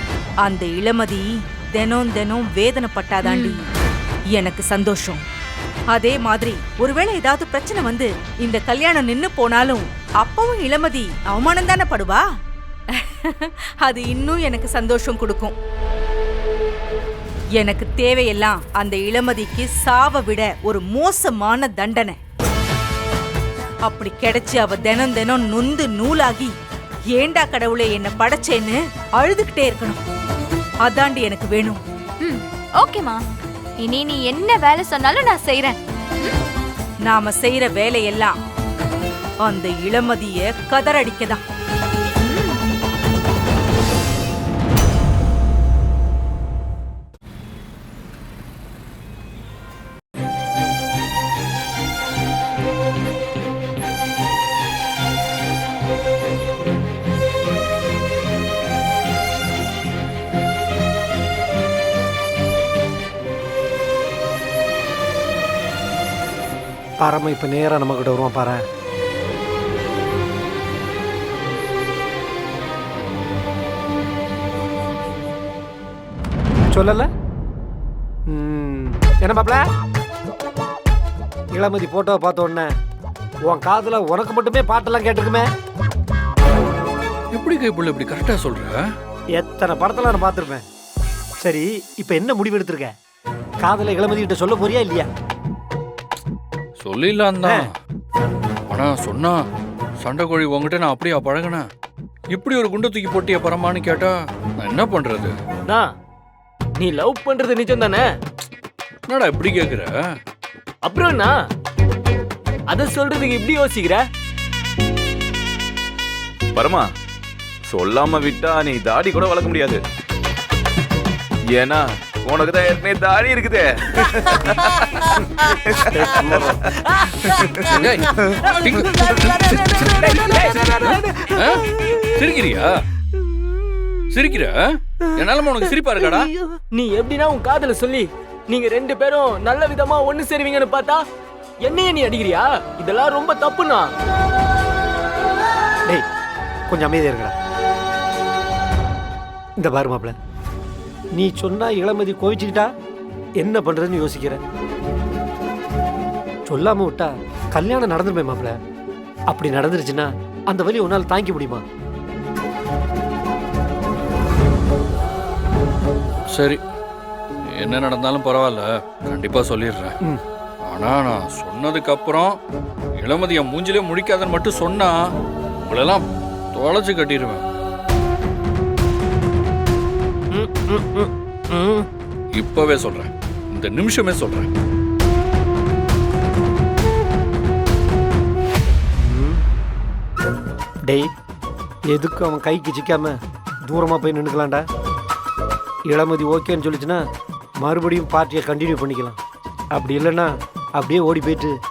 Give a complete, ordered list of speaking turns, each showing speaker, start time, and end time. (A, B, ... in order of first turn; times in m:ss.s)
0:00.4-0:03.6 A
0:03.2-0:03.6 B
0:04.3-0:05.2 A
0:05.9-0:12.2 A
0:12.9-0:15.5 A
0:17.6-0:22.2 A
0:23.8-0:26.5 A
0:27.1-0:30.0 A
0:30.8-0:31.8 A
0:32.2-0:33.2 B
0:33.8-0:36.3 B
0:37.1-0:38.4 A
0:39.4-0:41.4 A
0:42.2-0:42.6 B
1:07.0-1:08.6 C
1:16.7-1:17.1 C
1:18.3-1:19.6 C
1:21.5-1:22.7 C
1:23.5-1:25.4 C
1:27.3-1:28.7 D
1:29.3-1:30.6 C
1:31.4-1:32.9 C
1:33.6-1:35.1 C
1:36.8-1:37.7 D
1:37.4-1:37.7 C
1:38.7-1:39.4 D
1:40.0-1:41.7 D
1:42.3-1:45.3 D
1:46.8-1:48.0 E
1:49.1-1:49.9 D
1:50.8-1:51.3 E
1:52.7-1:54.0 E
1:56.5-1:56.9 F
1:57.7-1:59.8 F
2:01.5-2:07.8 F
2:06.1-2:06.5 C
2:07.7-2:12.8 D
2:10.2-2:10.8 E
2:14.1-2:16.3 D
2:16.7-2:21.0 E
2:21.6-2:23.9 E
2:26.7-2:27.3 C
2:29.6-2:30.1 C
2:31.1-2:32.7 C
2:33.4-2:34.4 C
2:36.5-2:38.5 C
2:39.3-2:41.6 C
2:46.3-2:46.6 D
2:47.5-2:50.0 D
2:50.7-2:52.4 D
2:53.0-2:55.0 D
2:55.7-2:57.4 D
3:00.3-3:01.8 E
3:02.3-3:04.5 D
3:09.0-3:09.4 C
3:11.9-3:13.1 C
3:13.7-3:14.6 C
3:15.9-3:17.0 C
3:17.6-3:19.2 C
3:19.7-3:21.5 C